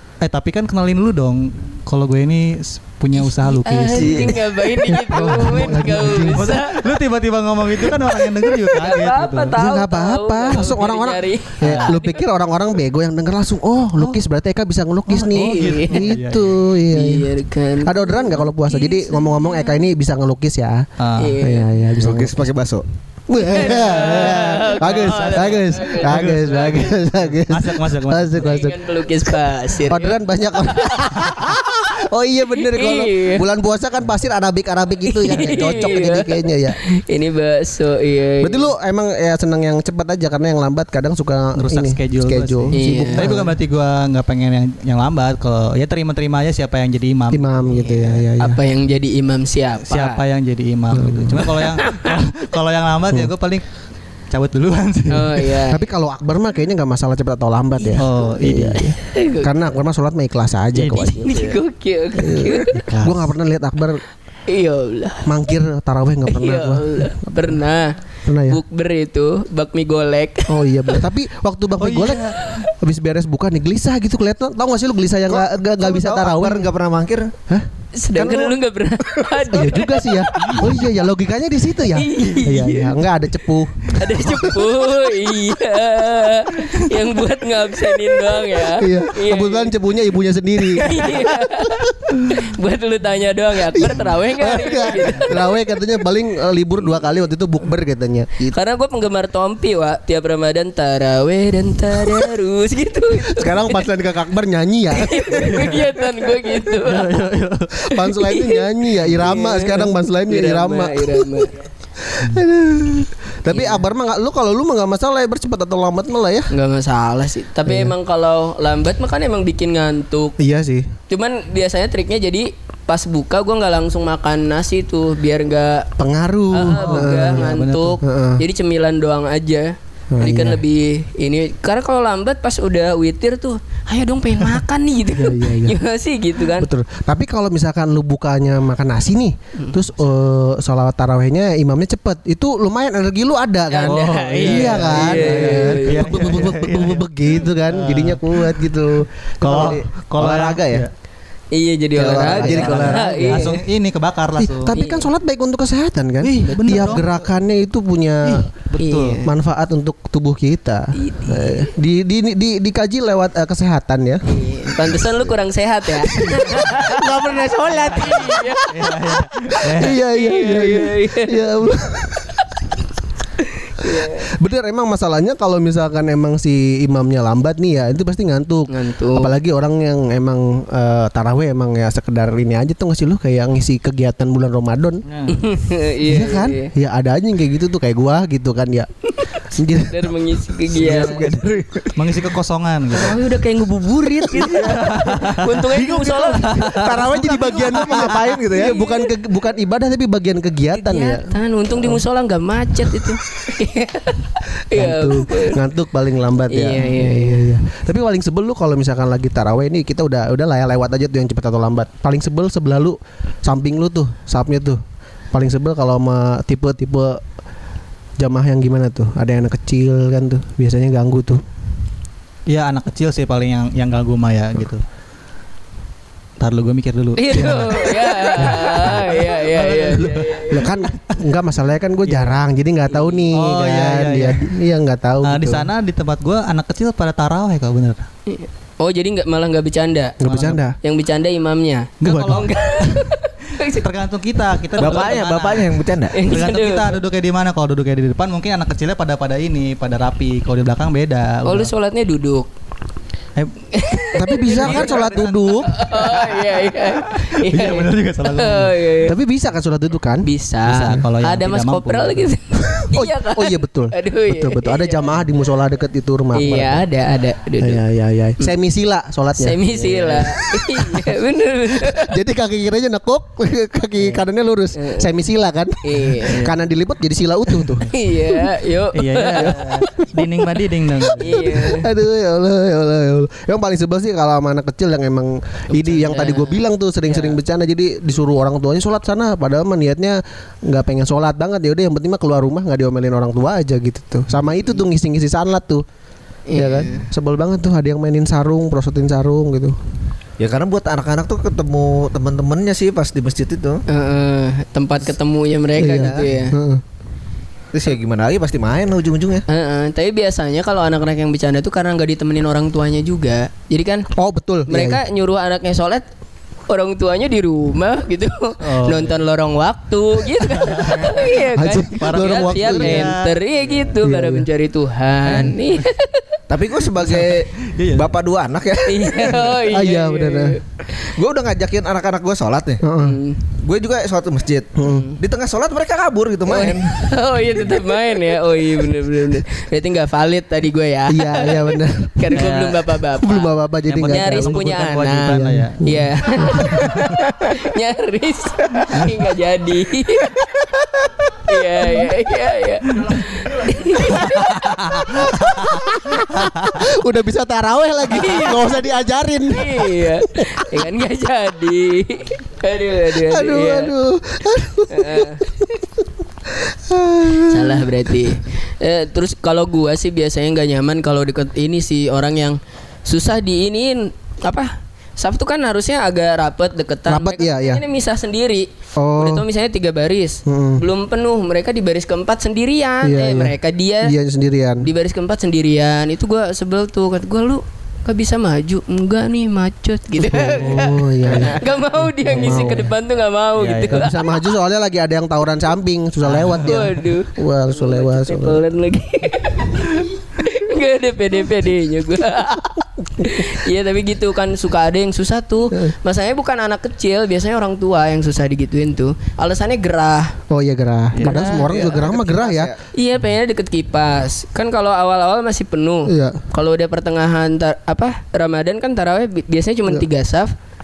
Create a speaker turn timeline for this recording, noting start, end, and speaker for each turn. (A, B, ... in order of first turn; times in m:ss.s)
0:00.2-0:04.4 A
0:03.2-0:06.8 B
0:04.0-0:06.5 C
0:05.1-0:09.5 A
0:07.8-0:12.2 B
0:09.6-0:20.9 C
0:15.1-0:16.5 A
0:15.4-0:16.1 B
0:16.9-0:19.7 B
0:21.0-0:21.3 A
0:21.2-0:21.7 B
0:21.4-0:22.5 C
0:22.0-0:22.8 D
0:23.3-0:36.8 C
0:23.4-0:26.5 B
0:23.7-0:28.5 A
0:28.4-0:31.1 B
0:32.5-0:33.4 B
0:35.1-0:38.7 B
0:38.4-0:43.6 C
0:41.6-0:47.8 A
0:42.7-0:43.3 B
0:47.3-0:48.6 C
0:47.7-0:50.2 B
0:49.9-0:53.7 A
0:50.9-0:51.5 C
0:51.6-0:52.1 B
0:54.3-0:55.6 A
0:55.1-0:55.8 B
0:55.7-1:01.3 C
0:58.0-0:58.9 A
0:59.0-0:59.8 B
1:00.7-1:01.6 A
1:01.2-1:02.8 B
1:02.2-1:04.0 C
1:02.7-1:03.3 A
1:04.5-1:05.3 B
1:05.2-1:07.6 C
1:06.3-1:11.0 B
1:08.2-1:08.6 C
1:10.5-1:16.7 C
1:11.8-1:12.6 A
1:15.3-1:17.3 D
1:17.5-1:24.6 C
1:17.9-1:20.7 B
1:21.9-1:23.0 B
1:23.8-1:29.7 B
1:28.6-1:32.1 C
1:30.8-1:35.5 B
1:33.7-1:38.5 C
1:38.4-1:43.8 B
1:43.2-1:45.9 C
1:44.9-1:47.1 B
1:45.5-1:45.8 A
1:46.8-1:47.8 A
1:47.7-1:56.5 C
1:48.2-1:51.6 B
1:53.5-1:53.8 B
1:56.5-2:00.4 B
1:57.6-1:57.9 C
2:00.4-2:00.9 C
2:01.1-2:05.9 B
2:06.0-2:07.5 C
2:06.5-2:16.7 B
2:06.6-2:08.0 A
2:08.0-2:08.4 C
2:10.1-2:10.6 C
2:15.2-2:15.8 C
2:16.5-2:30.6 C
2:23.7-2:26.2 B
2:23.8-2:28.6 A
2:29.4-2:30.9 A
2:29.4-2:30.8 D
2:31.5-2:33.6 B
2:31.9-2:33.5 C
2:32.3-2:34.8 A
2:34.4-2:38.5 C
2:34.7-2:35.1 B
2:36.2-2:37.0 A
2:36.5-2:36.9 B
2:38.7-2:39.2 A
2:38.8-2:39.3 B
2:39.2-2:44.9 C
2:40.9-2:41.7 B
2:44.3-2:47.3 B
2:46.1-2:52.5 C
2:47.8-2:48.7 B
2:48.7-2:50.0 A
2:49.8-2:51.4 B
2:53.4-2:54.3 B
2:53.8-3:05.0 C
2:58.7-2:59.3 B
3:05.1-3:05.4 A
3:05.3-3:06.7 B
3:06.0-3:08.9 C
3:09.4-3:11.5 C
3:09.6-3:11.3 B
3:10.7-3:12.0 D
3:12.0-3:13.2 A
3:12.9-3:16.8 B
3:14.4-3:14.7 C
3:14.6-3:18.2 A
3:16.5-3:22.0 C
3:17.7-3:18.8 D
3:18.5-3:19.1 B
3:20.7-3:25.6 B
3:24.7-3:37.2 C
3:26.5-3:27.4 B
3:38.2-3:41.4 C
3:42.5-3:44.8 A
3:46.4-3:51.2 A
3:47.2-3:50.6 B
3:50.5-3:55.7 C
3:52.0-3:52.4 A
3:52.9-3:53.2 B
3:53.3-3:54.5 A
3:55.2-3:58.1 A
3:58.3-4:00.2 B
4:00.2-4:00.8 C
4:00.2-4:00.6 A
4:00.8-4:03.8 B
4:02.0-4:03.1 A
4:02.0-4:02.5 C
4:03.6-4:11.7 A
4:04.8-4:06.2 D
4:06.1-4:06.9 B
4:11.4-4:12.5 B
4:13.7-4:15.1 B
4:14.1-4:15.7 C
4:14.5-4:18.9 A
4:15.6-4:19.1 B
4:19.0-4:20.3 C
4:20.2-4:25.1 B
4:20.6-4:22.3 A
4:22.6-4:26.8 C
4:26.3-4:27.8 B
4:27.6-4:31.2 C
4:29.3-4:32.1 B
4:29.8-4:30.2 A
4:31.7-4:37.9 C
4:34.8-4:35.1 B
4:35.8-4:36.4 B
4:36.2-4:36.5 A
4:37.9-4:39.6 B
4:38.9-4:41.5 A
4:39.4-4:55.8 C
4:41.2-4:41.9 B
4:45.8-4:46.6 B
4:56.5-4:57.1 B
4:56.6-4:59.8 C
5:00.4-5:03.8 D
5:03.9-5:06.6 B
5:05.8-5:06.8 C
5:07.7-5:09.4 D
5:09.5-5:14.1 B
5:14.1-5:15.0 C
5:14.7-5:16.1 B
5:16.7-5:26.4 B
5:18.6-5:19.1 A
5:20.5-5:21.3 A
5:21.5-5:23.1 C
5:21.8-5:23.4 A
5:24.0-5:24.5 C
5:25.2-5:25.8 A
5:26.5-5:29.6 D
5:27.0-5:28.1 A
5:28.8-5:31.1 B
5:29.7-5:30.6 C
5:31.1-5:32.8 D
5:32.8-5:33.2 C
5:33.0-5:33.4 B
5:33.6-5:37.1 D
5:34.8-5:35.1 C
5:34.9-5:35.1 B
5:36.5-5:43.5 B
5:41.1-5:42.3 C
5:42.3-5:42.9 A
5:43.2-5:46.7 C
5:43.9-5:45.8 A
5:44.0-5:50.7 B
5:50.6-5:51.3 C
5:51.4-5:55.3 B
5:54.9-5:55.8 A
5:54.9-6:00.9 C
5:58.1-5:58.8 B
5:59.5-6:03.9 B
6:03.1-6:08.0 C
6:04.9-6:05.4 B
6:07.5-6:24.1 B
6:17.1-6:17.8 C
6:19.0-6:19.4 C
6:20.5-6:20.8 C
6:23.0-6:24.9 C
6:24.8-6:34.4 B
6:30.3-6:32.9 C
6:33.6-6:34.1 A
6:33.9-6:38.6 C
6:36.2-6:36.6 A
6:36.6-6:50.4 B
6:43.2-6:43.6 C
6:50.5-6:52.7 C
6:51.2-6:51.4 A
6:51.2-6:51.9 B
6:51.3-6:52.8 D
6:52.9-7:00.5 B
6:56.0-6:56.4 C